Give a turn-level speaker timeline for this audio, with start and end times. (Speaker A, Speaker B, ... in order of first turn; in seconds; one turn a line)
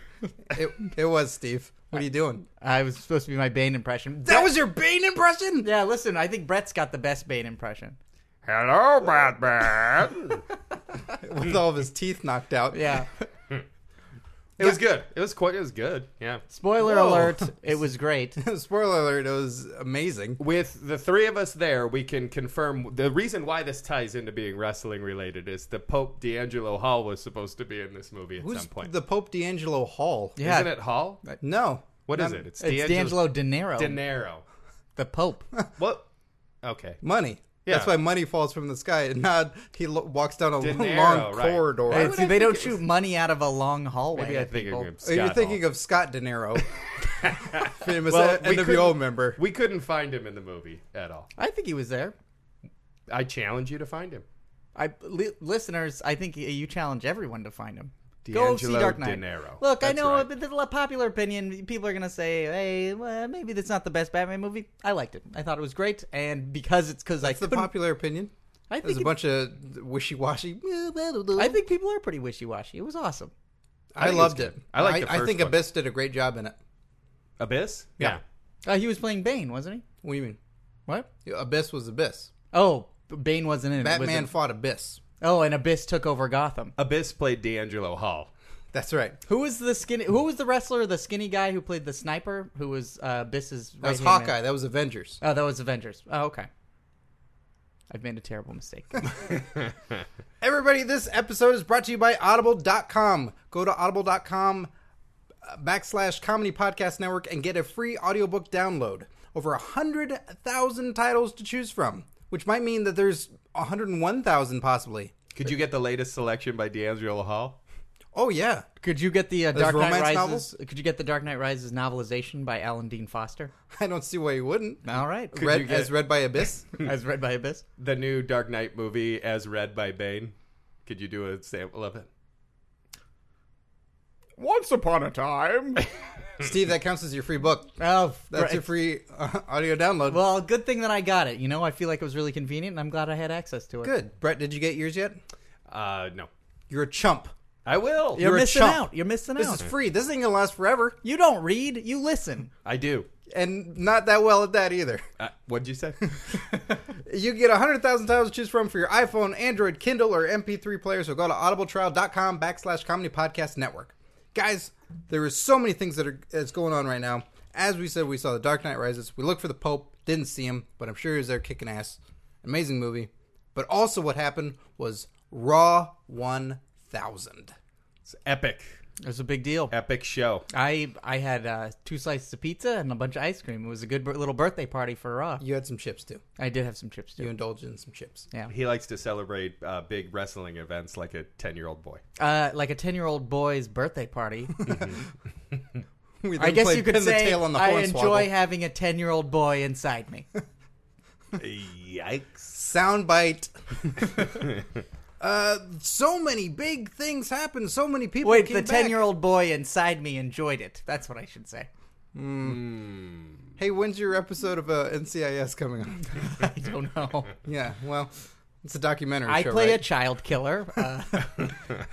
Speaker A: 0.5-2.5
Speaker B: 2.6-4.5
Speaker A: 4.2-5.7
Speaker B: 5.6-8.0
Speaker C: 8.4-10.4
Speaker A: 11.2-12.9
Speaker B: 12.7-13.3
Speaker C: 14.6-16.4
Speaker B: 16.5-18.4
Speaker A: 16.8-17.7
Speaker A: 18.4-20.4
Speaker C: 20.4-28.9
Speaker A: 28.4-30.4
Speaker B: 30.4-31.4
Speaker C: 30.4-31.2
Speaker A: 31.4-32.4
Speaker C: 32.1-34.5
Speaker B: 32.6-34.0
Speaker B: 35.0-35.5
Speaker C: 35.8-36.1
Speaker C: 36.6-37.0
Speaker A: 37.0-42.6
Speaker C: 37.7-37.9
Speaker C: 40.6-42.7
Speaker B: 41.9-44.9
Speaker C: 44.1-45.6
Speaker A: 45.0-46.8
Speaker C: 46.8-51.3
Speaker A: 47.6-49.4
Speaker B: 51.4-52.1
Speaker C: 53.1-54.2
Speaker B: 54.8-67.7
Speaker C: 58.3-60.3
Speaker A: 67.2-68.3
Speaker B: 68.7-69.1
Speaker A: 68.8-71.6
Speaker B: 71.4-73.3
Speaker A: 73.9-76.6
Speaker C: 74.0-75.5
Speaker C: 77.4-78.2
Speaker B: 78.6-79.8
Speaker A: 80.0-80.4
Speaker A: 81.2-82.3
Speaker B: 82.5-84.3
Speaker A: 83.8-85.0
Speaker B: 85.2-86.7
Speaker C: 86.8-88.3
Speaker A: 88.7-89.2
Speaker B: 89.3-94.4
Speaker A: 93.8-95.2
Speaker B: 95.2-96.5
Speaker B: 97.9-99.3
Speaker A: 100.4-104.7
Speaker A: 105.4-115.1
Speaker C: 115.3-117.6
Speaker A: 118.1-118.7
Speaker B: 118.8-123.5
Speaker A: 119.5-120.5
Speaker A: 123.7-126.7
Speaker B: 124.8-125.7
Speaker C: 125.4-125.9
Speaker B: 126.8-127.6
Speaker C: 127.8-130.3
Speaker C: 130.9-132.1
Speaker B: 134.4-135.8
Speaker A: 136.4-137.8
Speaker B: 137.8-138.7
Speaker A: 138.3-140.2
Speaker B: 140.1-144.0
Speaker A: 143.8-145.2
Speaker C: 145.7-146.3
Speaker A: 146.7-147.3
Speaker C: 147.7-148.2
Speaker B: 148.2-149.6
Speaker A: 148.2-151.0
Speaker B: 151.0-152.5
Speaker C: 152.6-153.1
Speaker A: 153.3-155.1
Speaker C: 155.2-156.1
Speaker A: 157.0-177.6
Speaker C: 178.1-178.8
Speaker B: 179.0-179.7
Speaker C: 179.7-180.5
Speaker B: 180.5-185.4
Speaker A: 185.4-186.2
Speaker B: 186.4-187.3
Speaker A: 187.2-188.3
Speaker C: 188.5-192.0
Speaker B: 192.2-194.6
Speaker C: 194.7-195.0
Speaker A: 196.2-198.3
Speaker B: 196.4-200.3
Speaker C: 201.4-202.5
Speaker A: 202.6-204.4
Speaker A: 205.2-209.0
Speaker B: 208.2-211.7
Speaker A: 212.2-212.7
Speaker C: 212.4-213.4
Speaker A: 213.6-216.2
Speaker B: 216.2-217.3
Speaker A: 217.4-218.1
Speaker A: 218.6-219.9
Speaker B: 219.3-221.5